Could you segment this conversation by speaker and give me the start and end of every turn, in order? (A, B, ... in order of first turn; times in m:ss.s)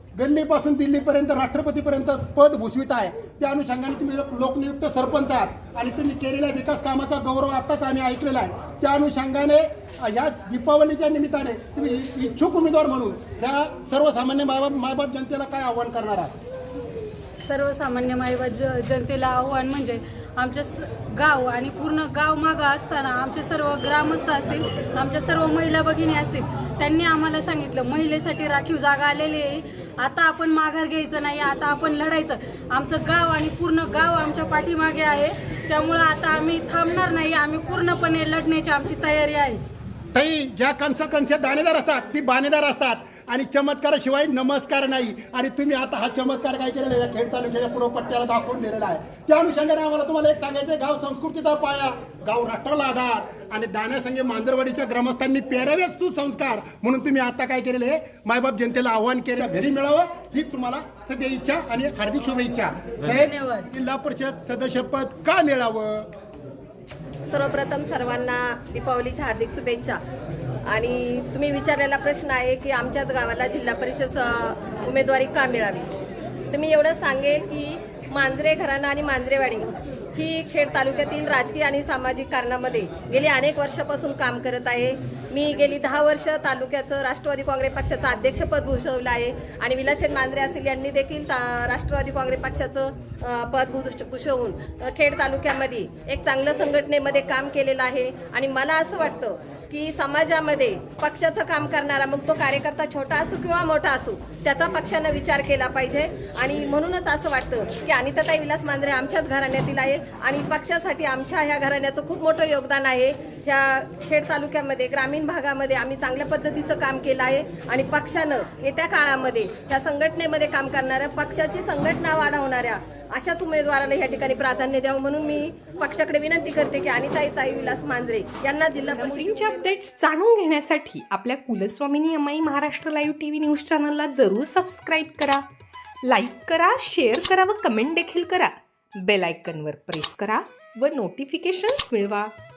0:00.2-0:16.4 A
0:17.4-0:39.6 B
0:40.2-1:06.1 A
1:03.1-1:03.7 B
1:07.3-1:10.0 C
1:10.7-1:15.9 C
1:16.5-2:09.8 C
2:08.9-2:15.4 D
2:16.0-2:22.3 D